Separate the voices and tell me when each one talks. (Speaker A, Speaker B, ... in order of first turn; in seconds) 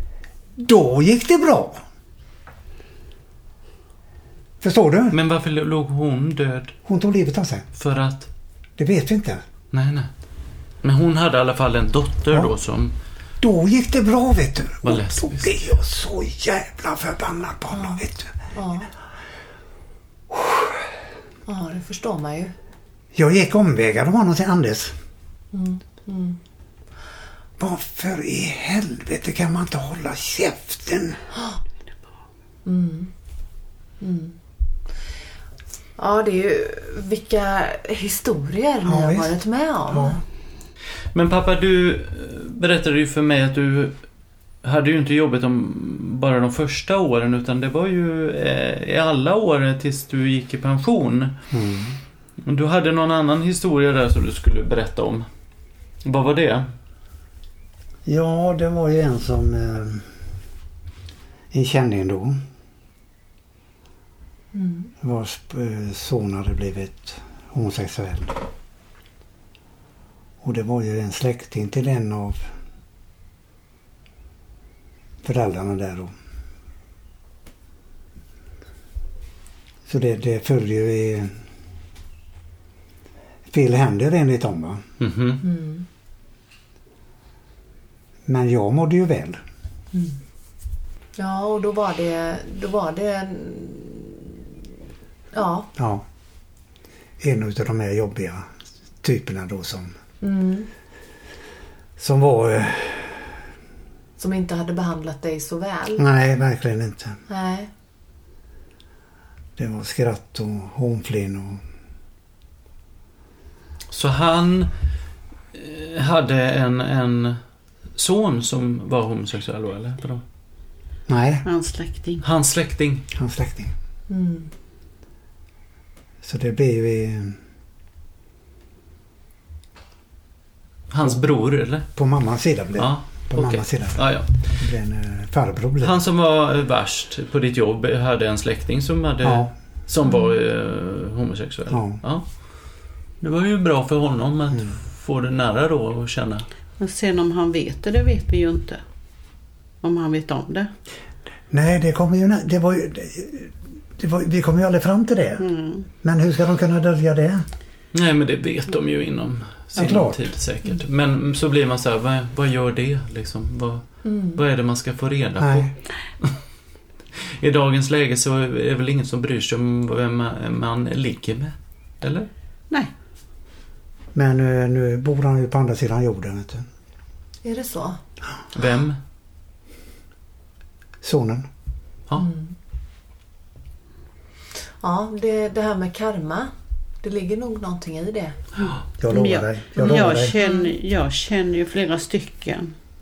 Speaker A: 0.6-1.8, 4.6-5.2, 6.9-7.7, 8.8-9.4, 13.4-18.3, 20.3-20.8, 23.1-24.9, 27.6-31.2, 38.9-39.4, 39.9-40.2, 51.5-52.0, 58.1-60.1, 61.5-62.4, 65.0-68.4, 70.4-72.4, 75.2-76.1, 79.9-81.3, 83.5-84.8, 88.3-89.4, 95.8-96.0, 97.2-98.5, 99.0-99.9, 102.0-103.3, 106.0-107.2, 109.6-111.6, 121.1-121.5, 123.1-123.7, 126.2-127.4, 132.0-136.0, 139.2-139.5, 141.7-142.0, 151.5-155.4, 156.0-157.4, 159.8-160.2, 165.4-165.7, 174.1-176.7, 181.0-181.5, 189.0-190.4
Speaker B: 5.1-6.8, 7.8-8.3, 9.7-10.1, 10.8-12.9, 14.8-15.5, 41.1-44.0, 44.6-51.4, 52.4-55.3, 56.0-56.6, 85.0-85.4, 113.9-114.7, 115.5-117.4, 118.0-120.2, 122.2-123.1, 130.9-131.9, 132.8-134.4, 135.8-142.2, 143.2-146.5, 157.9-165.7, 167.2-172.3, 178.5-179.0
Speaker C: 17.7-18.9, 21.5-22.5, 25.5-26.4, 31.3-31.6, 32.6-33.1, 34.0-34.4, 36.0-40.2, 64.5-64.9, 85.4-85.9, 89.9-90.2, 91.2-94.4, 95.3-95.7, 100.2-100.7, 104.2-106.0, 107.3-107.7, 124.1-124.5, 140.1-140.3, 164.1-164.4, 177.4-178.0, 182.2-182.5, 184.8-188.4, 189.8-190.7
Speaker D: 121.4-122.2, 146.8-148.8, 149.8-150.7, 155.4-155.9, 189.1-192.8